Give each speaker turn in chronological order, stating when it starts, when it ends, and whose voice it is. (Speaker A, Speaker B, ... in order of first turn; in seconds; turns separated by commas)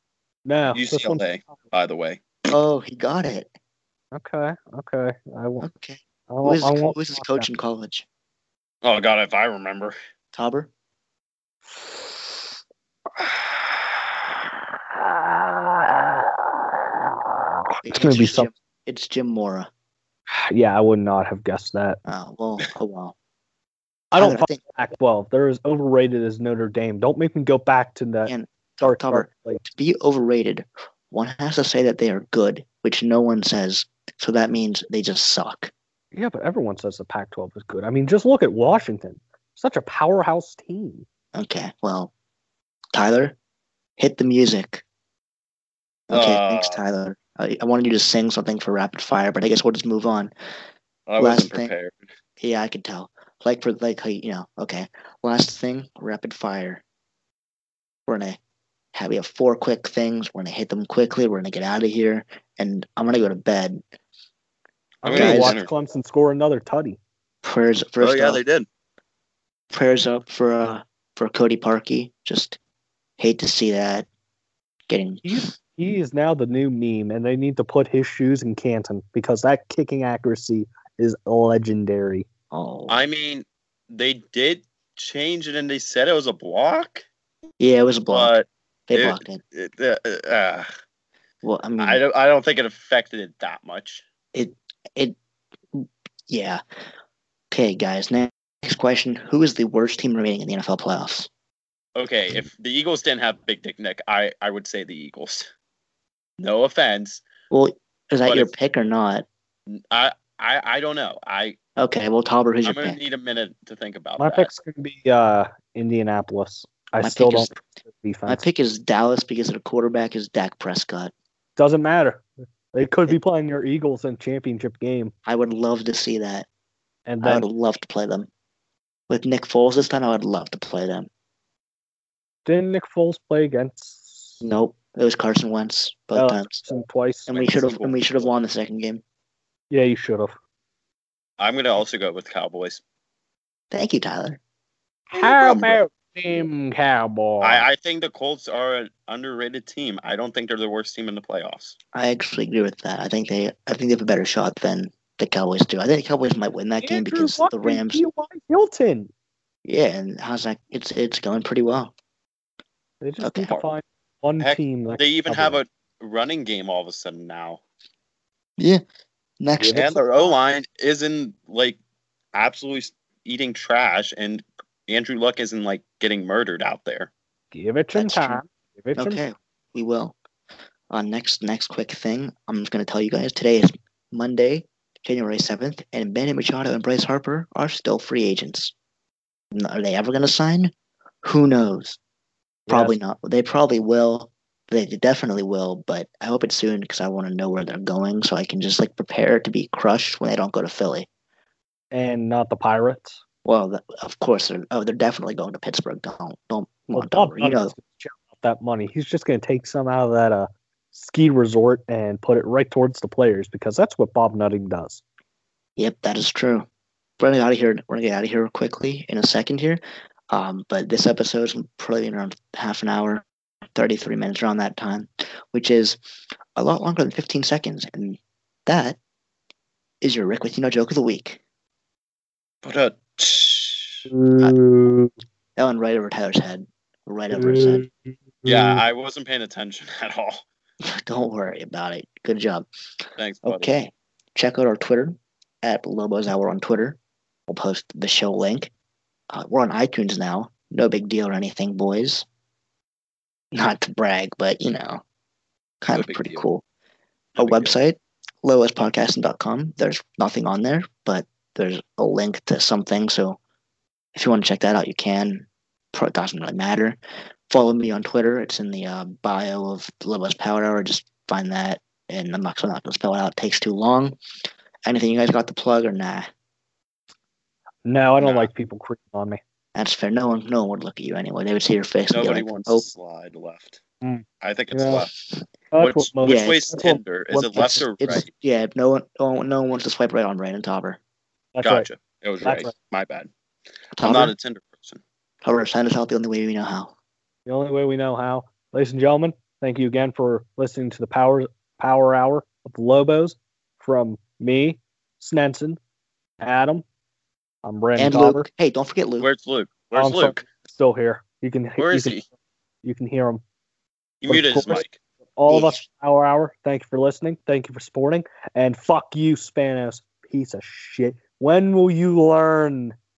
Speaker A: 0.5-1.4, Speaker B: 0.7-2.5, Speaker C: 2.5-3.5, Speaker A: 4.1-5.7, Speaker C: 5.6-8.1, Speaker A: 6.3-7.5, Speaker B: 8.8-9.9, Speaker C: 10.3-10.7, Speaker A: 11.7-12.3, Speaker A: 13.2-13.8, Speaker A: 15.0-16.3, Speaker A: 17.8-18.5, Speaker C: 17.8-19.7, Speaker A: 20.5-22.0, Speaker C: 22.0-23.1, Speaker A: 24.1-29.6, Speaker C: 24.1-24.6, Speaker C: 28.2-35.7, Speaker A: 36.1-41.0, Speaker C: 41.3-42.1, Speaker C: 42.9-43.4, Speaker C: 44.0-44.8, Speaker C: 46.1-50.3, Speaker B: 46.1-46.8, Speaker B: 51.1-52.0, Speaker C: 51.2-51.7, Speaker C: 52.4-56.8, Speaker C: 58.1-58.4, Speaker C: 58.9-63.8, Speaker A: 65.0-67.0, Speaker B: 65.0-65.7, Speaker C: 65.1-65.5, Speaker C: 67.4-68.4, Speaker B: 68.0-68.7, Speaker C: 69.7-72.6, Speaker C: 73.2-74.1, Speaker C: 74.9-75.4, Speaker A: 75.2-82.3, Speaker C: 82.5-83.0, Speaker B: 82.9-87.0, Speaker C: 87.6-88.3, Speaker B: 88.1-90.7, Speaker C: 88.9-89.4, Speaker C: 91.4-92.0, Speaker B: 91.8-94.0, Speaker C: 94.3-95.2, Speaker C: 95.7-96.6, Speaker C: 97.5-101.3, Speaker B: 101.9-105.5, Speaker B: 106.4-107.2, Speaker C: 107.5-109.2, Speaker B: 108.2-108.5, Speaker B: 109.7-111.6, Speaker C: 111.8-113.0, Speaker B: 112.6-114.5, Speaker A: 114.2-118.4, Speaker C: 117.0-117.6, Speaker C: 118.2-121.1, Speaker A: 121.6-125.1, Speaker C: 125.2-126.5, Speaker A: 127.1-127.5, Speaker C: 127.2-128.3, Speaker C: 129.1-131.1, Speaker A: 132.4-134.4, Speaker C: 134.4-136.6, Speaker A: 136.1-137.4, Speaker C: 137.3-139.0, Speaker B: 137.4-138.0, Speaker A: 139.7-140.3, Speaker B: 141.4-142.8, Speaker C: 143.7-144.4, Speaker A: 145.1-147.6, Speaker B: 145.1-145.8, Speaker B: 147.4-151.8, Speaker C: 151.9-158.0, Speaker A: 156.8-159.1, Speaker C: 159.6-161.9, Speaker A: 163.0-165.6, Speaker C: 163.2-163.5, Speaker B: 164.4-167.6, Speaker C: 169.4-170.3, Speaker B: 169.7-171.8, Speaker B: 172.3-177.1, Speaker A: 177.5-179.2, Speaker C: 177.9-178.4, Speaker C: 178.9-180.2, Speaker C: 180.9-188.7, Speaker C: 189.5-192.0, Speaker A: 192.7-192.9, Speaker C: 192.7-201.1, Speaker A: 201.9-203.2, Speaker C: 203.4-207.7, Speaker A: 206.9-215.0, Speaker C: 215.8-216.7, Speaker C: 217.2-226.0, Speaker C: 226.5-229.0, Speaker C: 230.0-231.4, Speaker B: 232.6-234.1, Speaker A: 234.1-235.1, Speaker C: 235.6-237.9, Speaker A: 237.3-238.8, Speaker B: 238.4-240.4, Speaker C: 240.8-242.7, Speaker B: 243.2-243.7, Speaker C: 243.4-248.7, Speaker C: 249.3-252.2, Speaker C: 253.5-255.0, Speaker C: 255.8-256.6, Speaker B: 255.9-256.4, Speaker B: 257.4-257.7, Speaker C: 257.4-263.4, Speaker C: 264.1-267.0, Speaker C: 267.5-274.1, Speaker C: 274.8-276.3, Speaker A: 277.8-279.4, Speaker B: 278.2-278.5, Speaker C: 279.7-282.9, Speaker B: 282.1-283.8, Speaker A: 284.0-285.1, Speaker B: 284.4-285.1, Speaker A: 285.7-287.0, Speaker B: 285.8-288.3, Speaker C: 286.2-286.8, Speaker C: 287.3-291.0, Speaker A: 291.5-291.9, Speaker B: 291.6-293.3, Speaker A: 292.4-292.7, Speaker C: 294.0-294.3, Speaker B: 294.0-295.0, Speaker C: 295.4-296.9, Speaker A: 297.5-305.8, Speaker A: 306.4-306.8, Speaker A: 307.6-308.4, Speaker C: 307.9-309.3, Speaker B: 309.2-310.4, Speaker A: 309.9-312.2, Speaker B: 311.8-312.2, Speaker A: 312.8-313.4, Speaker B: 314.2-314.9, Speaker A: 314.3-314.8, Speaker A: 315.4-322.9, Speaker C: 315.5-315.8